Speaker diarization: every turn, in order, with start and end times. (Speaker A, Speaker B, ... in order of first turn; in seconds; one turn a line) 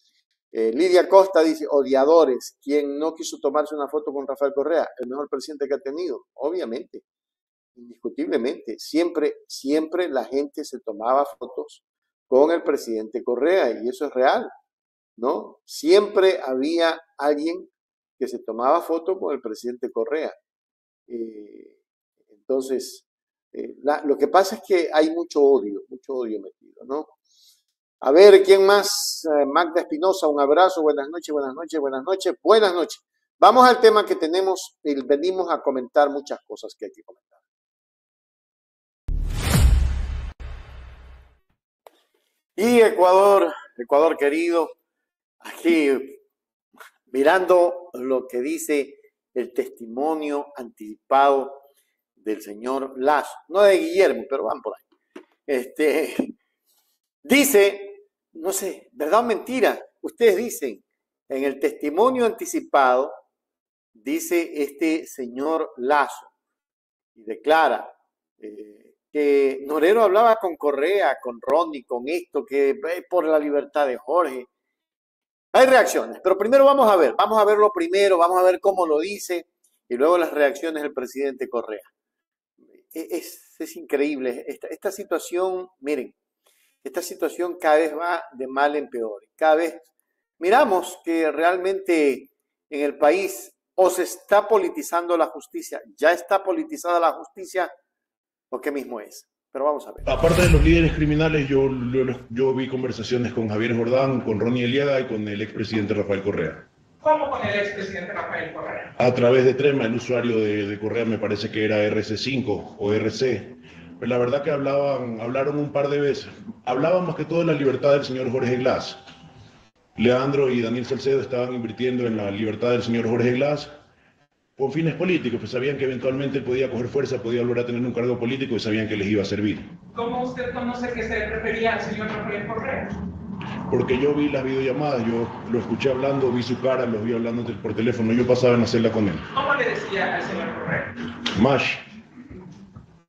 Speaker A: 0.5-7.0
Speaker A: 7.8-14.5
Speaker A: 15.2-20.4
Speaker A: 21.1-21.8
Speaker A: 22.4-27.1
Speaker A: 28.0-37.4
Speaker A: 42.6-44.8
Speaker A: 45.4-46.2
Speaker A: 47.1-51.6
Speaker A: 52.2-54.8
Speaker A: 55.5-56.4
Speaker A: 57.2-63.2
Speaker A: 64.0-66.3
Speaker A: 67.2-74.5
Speaker A: 75.5-81.9
Speaker A: 82.9-86.2
Speaker A: 86.8-89.9
Speaker A: 90.4-97.7
Speaker A: 98.5-100.1
Speaker B: 100.0-106.7
Speaker C: 107.0-108.9
Speaker B: 109.0-119.0
Speaker B: 120.0-123.8
Speaker B: 124.6-129.8
Speaker C: 129.9-132.9
Speaker B: 133.7-139.3
Speaker C: 139.4-140.9
Speaker B: 141.2-141.8